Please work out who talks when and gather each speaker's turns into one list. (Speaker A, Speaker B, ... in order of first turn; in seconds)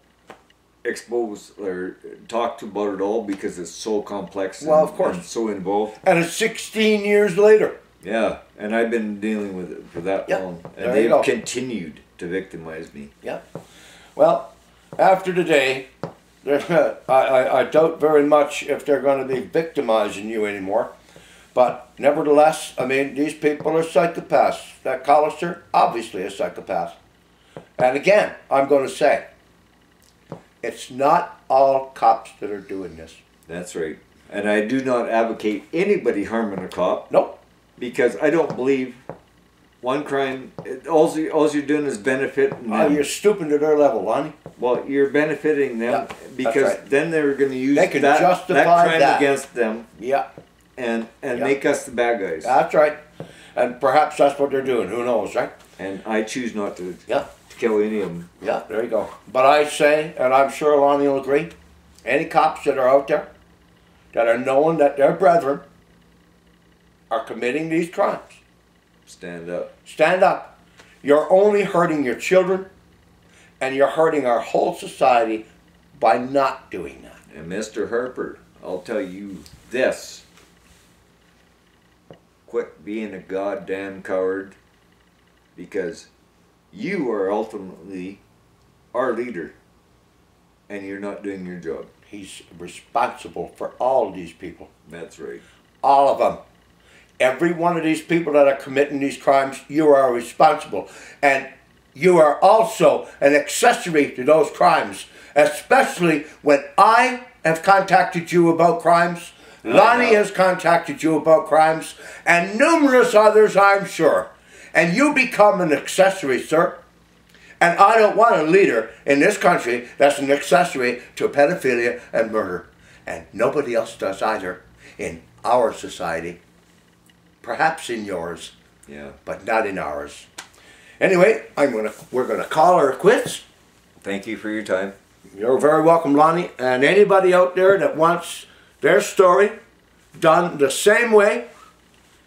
Speaker A: 0.8-6.0, 8.0-13.1, 33.5-37.1, 37.8-39.0, 39.8-43.0, 44.6-49.9, 50.8-52.5, 55.8-58.3, 69.0-69.7, 77.3-80.2, 82.5-84.6, 85.5-86.1, 86.7-88.2, 88.9-89.6, 90.7-91.9, 94.9-95.4, 109.6-110.2, 128.9-129.2, 134.0-134.9
Speaker B: 4.6-5.3, 6.0-7.8, 10.3-11.3, 14.2-15.9, 16.4-20.9, 21.5-27.0, 27.8-29.2, 30.6-33.2, 37.1-37.4, 42.7-44.4, 45.9-46.8, 47.7-49.3, 50.0-50.2, 52.4-53.0, 53.5-55.5, 58.4-61.5, 62.0-63.3, 64.1-65.6, 67.1-68.4, 69.8-72.7, 73.6-77.2, 92.1-94.7, 95.8-96.4, 97.2-116.8, 117.6-126.4, 127.4-128.5, 129.2-130.3, 131.0-133.4, 135.3-139.6, 140.1-141.4